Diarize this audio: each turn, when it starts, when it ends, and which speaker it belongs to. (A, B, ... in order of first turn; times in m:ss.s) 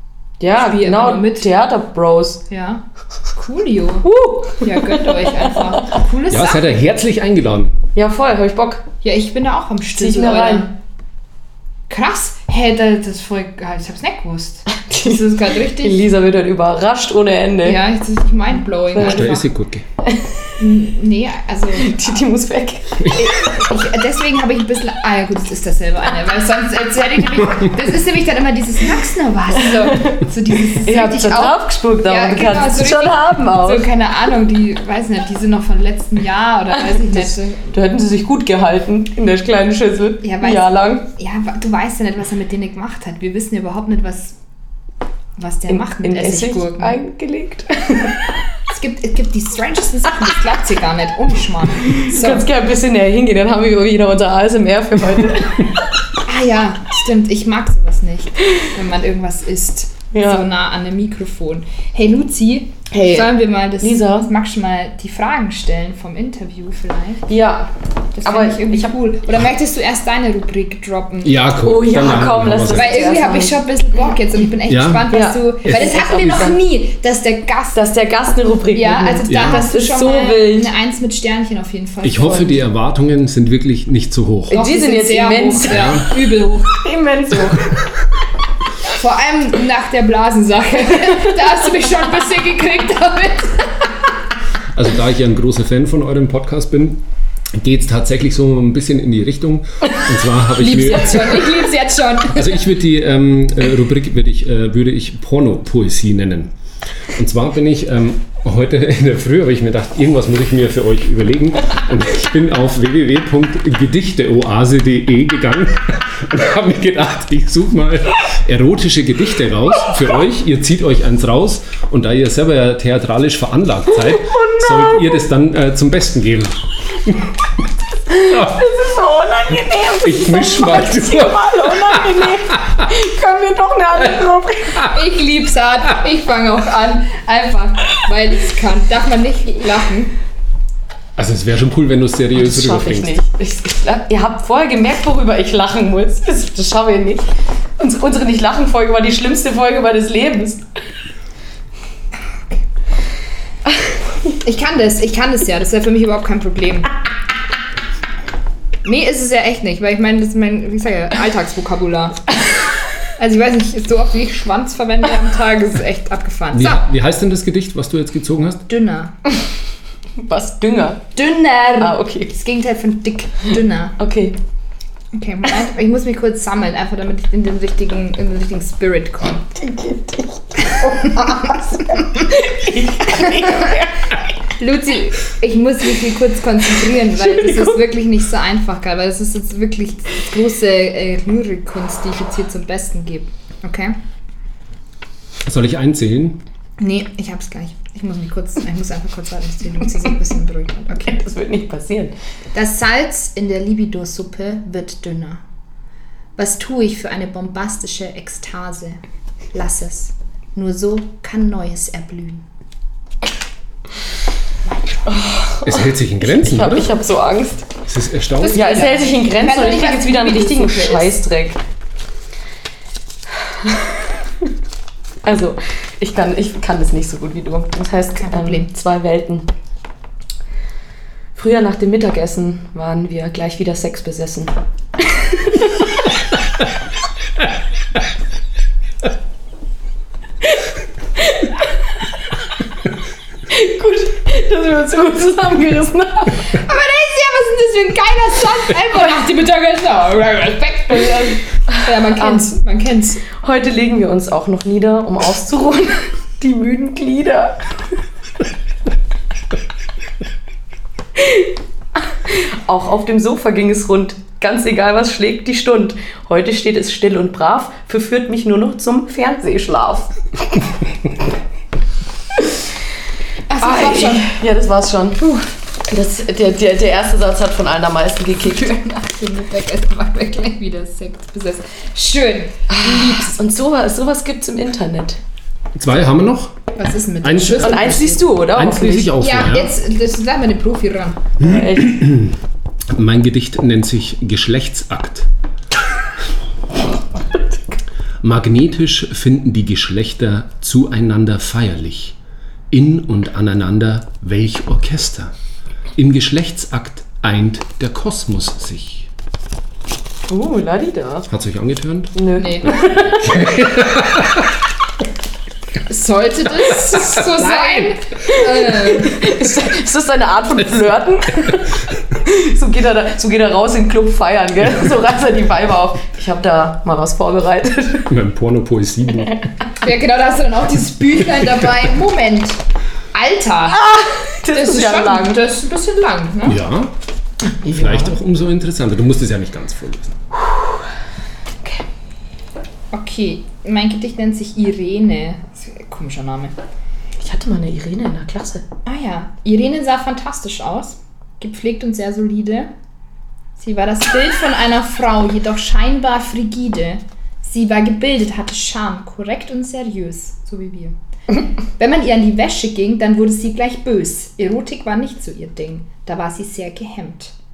0:00.4-0:02.4 A
0:00.5-0:01.5 B
0:02.5-0:04.1 B
0:04.0-0:05.8 A
0:04.6-0:06.7 B
0:06.3-0:07.8 C
0:08.0-0:08.8 A
0:09.0-0:10.7 B
0:10.0-0:10.7 A
0:11.9-0:16.1 B
0:14.8-0:17.8 A
0:17.6-0:19.4 B
0:19.0-0:19.9 C
0:20.0-0:20.5 A
0:20.6-0:22.2 B
0:21.8-0:23.3 A
0:23.1-0:37.6 B
0:29.7-0:33.9 A
0:36.8-0:41.1 A
0:40.2-0:44.4 B
0:45.4-0:47.0 B
0:45.7-0:48.4 A
0:48.7-0:52.5 B
0:52.0-0:55.8 A
0:56.2-1:07.3 B
1:00.1-1:00.5 A
1:02.9-1:04.3 A
1:07.3-1:07.7 A
1:08.2-1:11.4 B
1:08.2-1:09.0 A
1:11.2-1:13.1 C
1:11.6-1:13.6 A
1:12.7-1:17.9 B
1:14.7-1:15.1 C
1:15.1-1:16.6 A
1:17.8-1:20.7 A
1:18.7-1:22.6 B
1:19.3-1:19.6 C
1:22.0-1:24.6 C
1:22.2-1:22.5 A
1:24.5-1:26.0 A
1:24.5-1:26.8 B
1:25.7-1:26.0 C
1:26.7-1:27.8 A
1:28.9-1:33.9 B
1:34.7-1:37.0 C
1:37.6-1:41.6 C
1:40.6-1:42.6 B
1:42.3-1:46.5 C
1:47.1-2:07.4 C
2:03.9-2:05.2 A
2:08.1-2:14.8 A
2:08.3-2:08.7 C
2:10.0-2:12.9 C
2:14.9-2:20.1 B
2:21.2-2:23.2 C
2:22.4-2:30.7 A
2:34.3-2:36.9 B
2:38.8-2:42.2 B
2:43.2-2:46.8 B
2:46.5-2:48.7 C
2:48.7-2:49.1 B
2:50.2-2:51.1 A
2:51.2-2:54.0 B
2:51.8-2:52.3 A
2:54.0-2:54.4 A
2:55.1-2:59.5 B
2:59.6-3:04.2 A
3:00.6-3:02.1 B
3:03.1-3:03.9 B
3:04.5-3:14.0 B
3:07.3-3:07.7 A
3:15.4-3:16.4 C
3:16.8-3:21.2 B
3:21.1-3:22.2 A
3:22.5-3:25.4 B
3:26.4-3:29.0 B
3:29.5-3:32.4 B
3:34.7-3:35.2 B
3:35.1-3:37.7 A
3:35.6-3:37.0 C
3:37.8-3:38.8 C
3:38.4-3:41.1 B
3:38.5-3:41.6 A
3:43.3-3:44.5 A
3:45.2-3:49.5 A
3:48.2-3:48.7 B
3:51.4-3:56.1 A
4:00.4-4:01.8 A
4:03.5-4:06.6 A
4:06.4-4:13.2 B
4:12.1-4:12.6 A
4:13.3-4:17.6 A
4:21.2-4:30.2 A
4:33.5-4:34.3 B
4:33.6-4:39.0 A
4:38.8-4:43.3 B
4:42.7-4:45.2 A
4:45.8-4:46.6 C
4:46.8-4:48.3 B
4:47.2-4:49.7 C
4:47.6-4:49.1 A
4:49.2-4:51.3 B
4:51.4-4:52.0 A
4:51.4-4:52.4 C
4:52.9-4:55.3 C
4:58.2-5:02.2 C
5:02.7-5:05.3 C
5:06.0-5:09.1 C
5:10.3-5:11.3 A
5:11.3-5:14.5 C
5:12.2-5:13.6 A
5:12.4-5:12.7 B
5:15.9-5:19.3 B
5:17.5-5:28.1 A
5:28.1-5:29.5 C
5:29.2-5:29.5 A
5:29.8-5:32.6 B
5:33.1-5:33.8 B
5:33.7-5:35.4 A
5:34.5-5:36.6 B
5:36.5-5:36.9 C
5:37.6-5:38.2 A
5:37.6-5:40.2 C
5:40.4-5:40.8 A
5:42.9-5:46.5 B
5:47.2-5:48.6 A
5:48.9-5:52.7 B
5:53.6-6:01.0 B
6:01.8-6:07.3 B